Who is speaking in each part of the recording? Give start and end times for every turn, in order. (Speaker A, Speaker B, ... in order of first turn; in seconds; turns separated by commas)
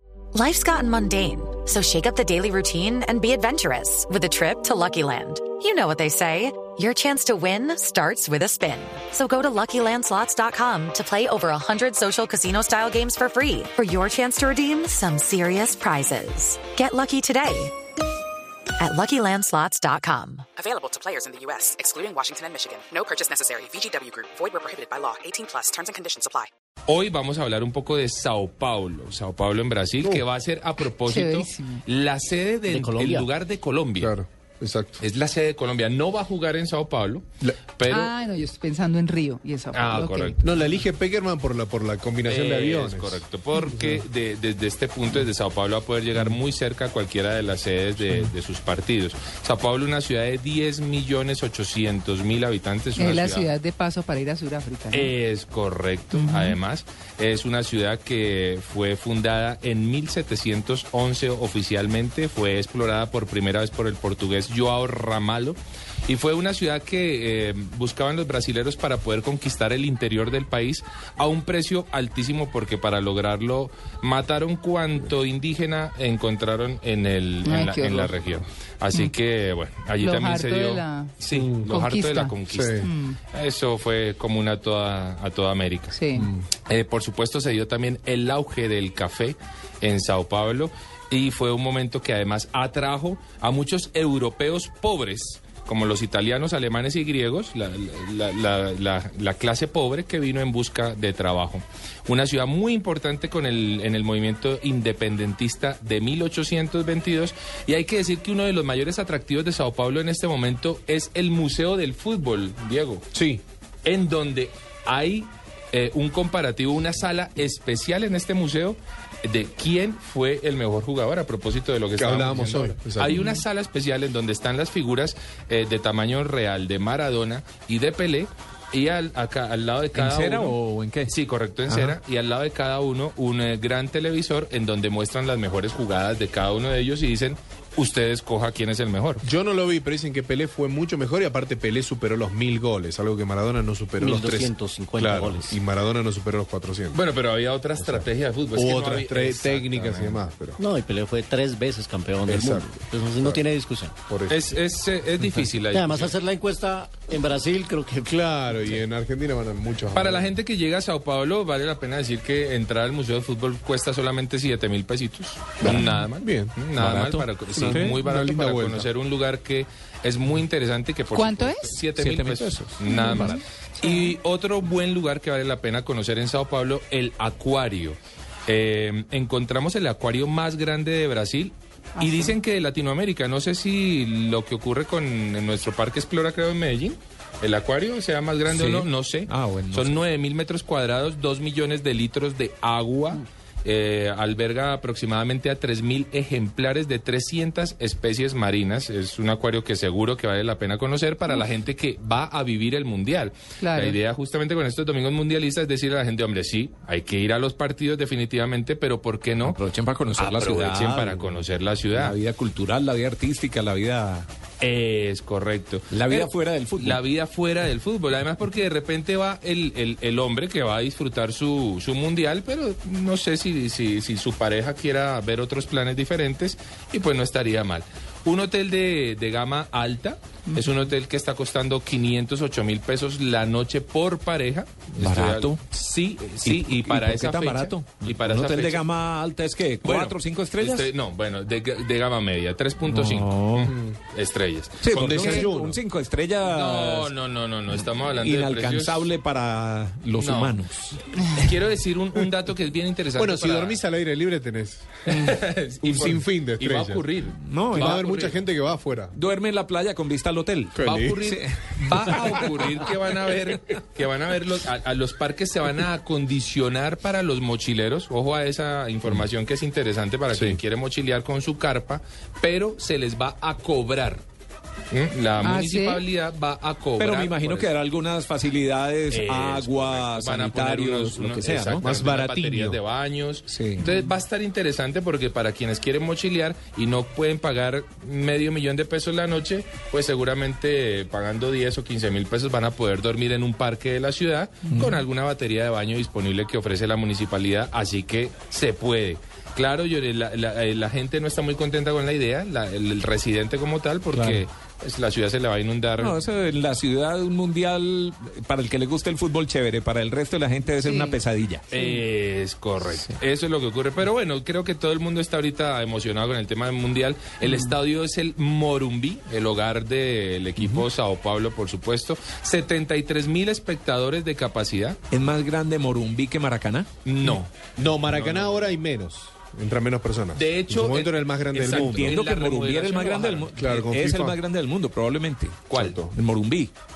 Speaker A: 0.3-17.7, Speaker A: 18.8-20.4, Speaker B: 20.6-26.5, Speaker C: 26.9-34.1, Speaker D: 30.0-30.3, Speaker E: 31.0-31.8, Speaker F: 32.7-33.3, Speaker D: 34.0-35.0, Speaker C: 35.0-38.1, Speaker E: 37.9-40.4, Speaker C: 39.7-40.4, Speaker D: 40.4-44.0, Speaker C: 42.2-53.5, Speaker D: 46.1-46.4, Speaker D: 48.0-48.3, Speaker E: 52.9-55.1, Speaker C: 54.9-86.0, Speaker E: 56.1-56.6, Speaker E: 77.4-78.2, Speaker E: 80.0-83.2, Speaker D: 81.3-81.7, Speaker D: 82.5-82.9, Speaker E: 85.9-86.3, Speaker D: 86.1-86.4, Speaker C: 86.7-113.0, Speaker D: 113.1-113.4, Speaker C: 113.8-139.2, Speaker D: 122.0-123.2, Speaker G: 129.9-131.1, Speaker G: 131.7-132.0, Speaker D: 139.2-147.0, Speaker F: 144.0-145.6, Speaker C: 146.9-150.2, Speaker D: 147.7-150.6, Speaker F: 150.6-153.9, Speaker D: 152.2-153.4, Speaker D: 154.1-154.5, Speaker C: 154.3-156.1, Speaker F: 155.7-158.1, Speaker D: 158.0-160.3, Speaker C: 159.9-209.6, Speaker D: 165.6-166.7, Speaker G: 165.7-166.0, Speaker G: 166.8-168.0, Speaker D: 167.5-168.9, Speaker E: 171.1-171.9, Speaker G: 172.0-173.2, Speaker E: 172.9-174.1, Speaker E: 182.0-182.3, Speaker G: 188.5-190.0, Speaker E: 203.6-204.0, Speaker G: 209.4-211.4, Speaker C: 210.2-212.2, Speaker G: 211.9-214.3, Speaker C: 214.6-238.8, Speaker G: 215.9-217.0, Speaker G: 235.0-235.6, Speaker G: 236.4-240.9, Speaker C: 239.8-245.5, Speaker G: 242.8-243.7, Speaker D: 243.6-244.0, Speaker G: 244.8-247.1, Speaker D: 244.9-245.8, Speaker C: 246.4-249.1, Speaker G: 248.2-251.0, Speaker C: 250.2-253.8, Speaker D: 253.2-257.1, Speaker C: 255.1-258.4, Speaker G: 257.4-258.1, Speaker D: 257.7-259.2, Speaker G: 259.1-262.5, Speaker D: 260.8-261.2, Speaker C: 260.8-274.2, Speaker D: 270.3-270.6, Speaker C: 274.9-277.7, Speaker E: 275.4-276.0, Speaker G: 277.0-282.5, Speaker C: 279.1-306.2, Speaker D: 281.8-282.8, Speaker G: 283.5-283.9, Speaker G: 294.7-295.0, Speaker G: 304.1-304.4, Speaker G: 306.0-311.6, Speaker E: 310.8-311.2, Speaker C: 311.7-325.0, Speaker E: 311.7-312.0, Speaker D: 320.6-320.8, Speaker G: 325.1-326.9, Speaker C: 327.0-328.8, Speaker D: 327.2-332.2, Speaker C: 330.3-333.5, Speaker G: 331.5-336.7, Speaker D: 333.6-334.4, Speaker C: 335.7-336.0, Speaker D: 335.7-336.1